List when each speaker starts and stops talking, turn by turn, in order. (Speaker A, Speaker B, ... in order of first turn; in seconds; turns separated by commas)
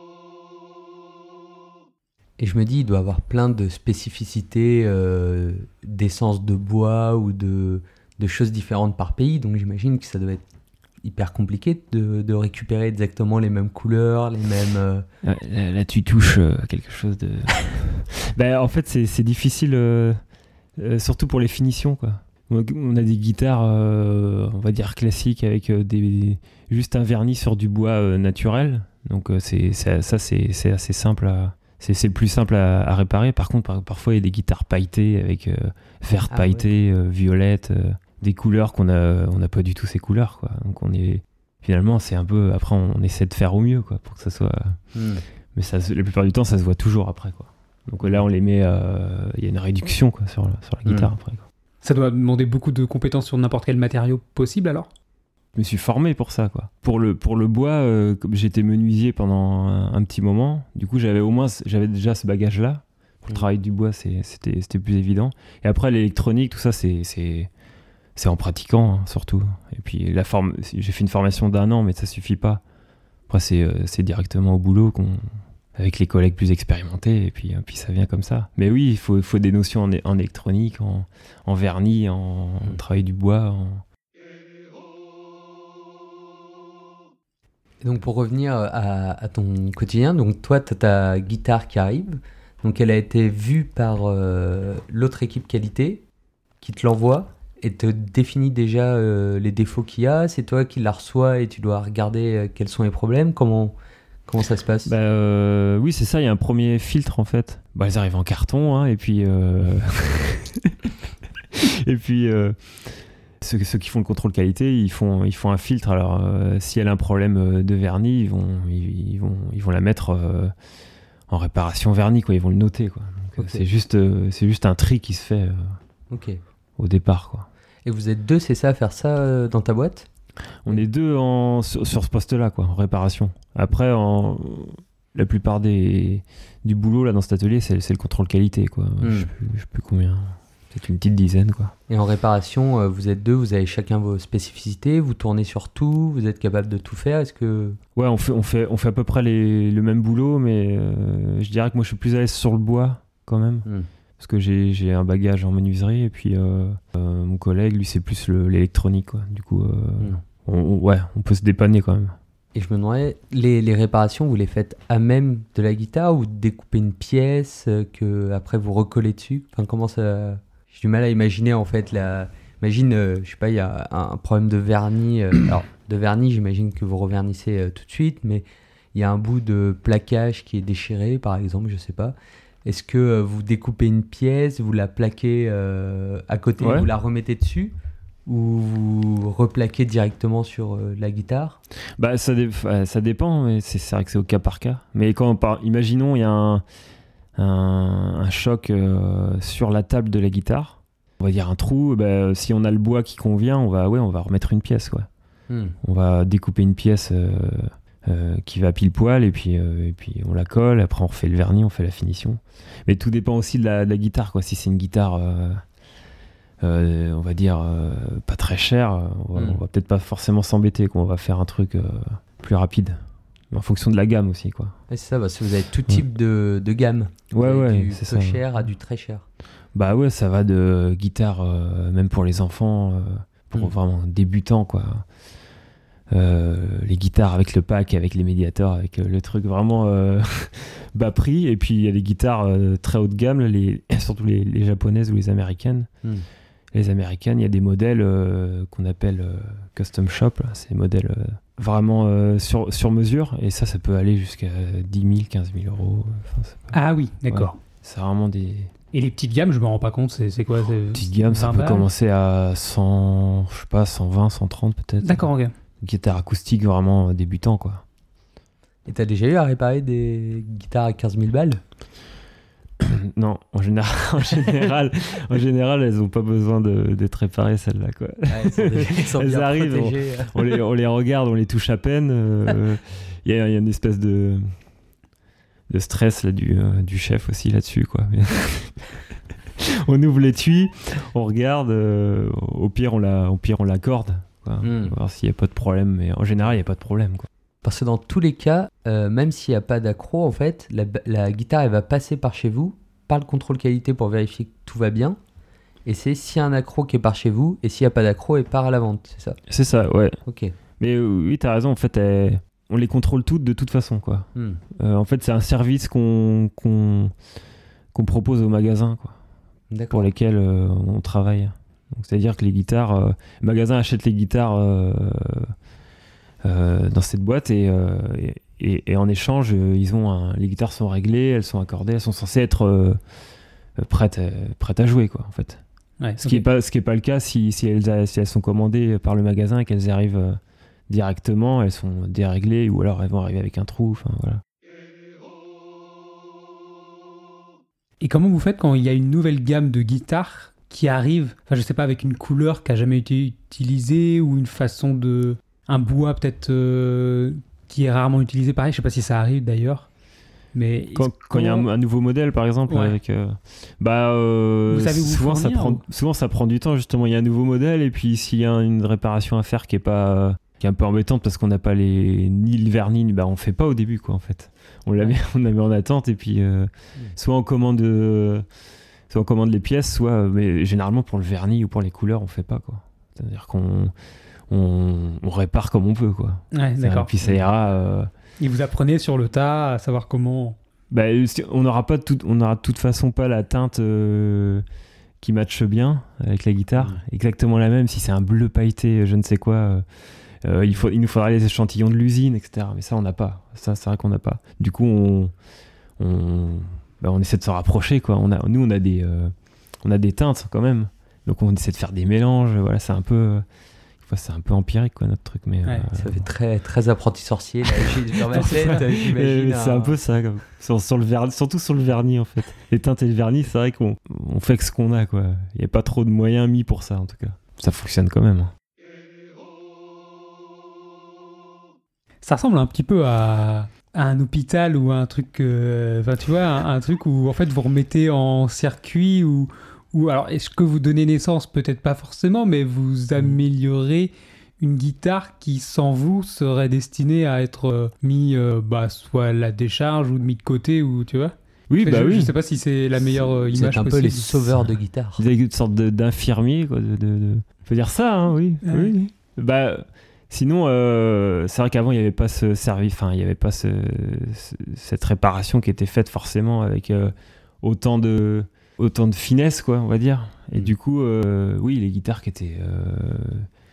Speaker A: 2.4-10.4, Speaker A: 11.0-15.1, Speaker B: 15.2-20.2, Speaker B: 20.8-44.8, Speaker A: 36.3-36.7, Speaker A: 44.9-45.2, Speaker B: 45.5-51.4, Speaker A: 50.8-51.1, Speaker C: 51.8-54.9, Speaker B: 55.5-67.5, Speaker B: 68.2-72.6, Speaker B: 73.3-83.8, Speaker A: 87.8-96.0, Speaker A: 96.6-103.7, Speaker A: 104.3-104.9, Speaker B: 104.8-110.8, Speaker B: 111.5-120.5, Speaker B: 121.3-125.7, Speaker A: 123.4-123.6, Speaker A: 126.1-126.4, Speaker B: 126.8-127.5, Speaker A: 127.8-130.1, Speaker B: 130.6-141.7, Speaker A: 139.0-139.3, Speaker A: 141.9-147.8, Speaker B: 147.9-153.7, Speaker B: 154.2-162.2, Speaker A: 162.5-187.7, Speaker B: 186.6-186.9, Speaker A: 188.2-191.6, Speaker B: 192.0-196.6, Speaker B: 197.3-205.1, Speaker A: 205.5-205.7, Speaker B: 205.8-215.6, Speaker B: 216.6-224.8, Speaker A: 219.3-219.6, Speaker A: 224.9-229.2, Speaker B: 227.3-228.4, Speaker B: 229.7-235.1, Speaker B: 236.1-245.9, Speaker B: 246.7-258.7, Speaker C: 256.7-257.6, Speaker C: 258.9-261.9, Speaker B: 260.9-265.3, Speaker C: 265.0-265.5, Speaker B: 265.8-267.8, Speaker A: 268.9-271.6, Speaker B: 272.8-284.5, Speaker A: 278.3-280.5, Speaker B: 285.7-288.9, Speaker B: 289.6-297.3, Speaker A: 294.6-294.9, Speaker A: 297.6-305.2, Speaker A: 305.8-309.4, Speaker B: 309.5-310.2, Speaker A: 310.2-310.5, Speaker B: 310.8-317.1, Speaker A: 314.3-314.6, Speaker B: 317.9-319.1, Speaker A: 319.7-320.1, Speaker B: 319.9-325.5, Speaker B: 326.4-333.0, Speaker B: 333.8-335.6, Speaker C: 336.0-336.4, Speaker B: 336.2-344.4, Speaker C: 348.0-359.9, Speaker C: 360.5-361.7, Speaker B: 360.9-378.4, Speaker C: 362.7-362.9, Speaker C: 364.7-365.8, Speaker B: 379.1-383.9, Speaker B: 384.5-388.1, Speaker C: 386.5-387.1, Speaker C: 388.4-390.6, Speaker B: 390.9-394.6, Speaker B: 395.2-399.8, Speaker B: 400.4-405.3, Speaker B: 406.0-413.4, Speaker B: 414.0-416.2, Speaker A: 415.9-419.9, Speaker B: 418.3-428.5, Speaker C: 432.2-454.4, Speaker B: 451.7-452.3, Speaker A: 453.1-455.2, Speaker B: 455.2-473.5, Speaker C: 458.6-458.9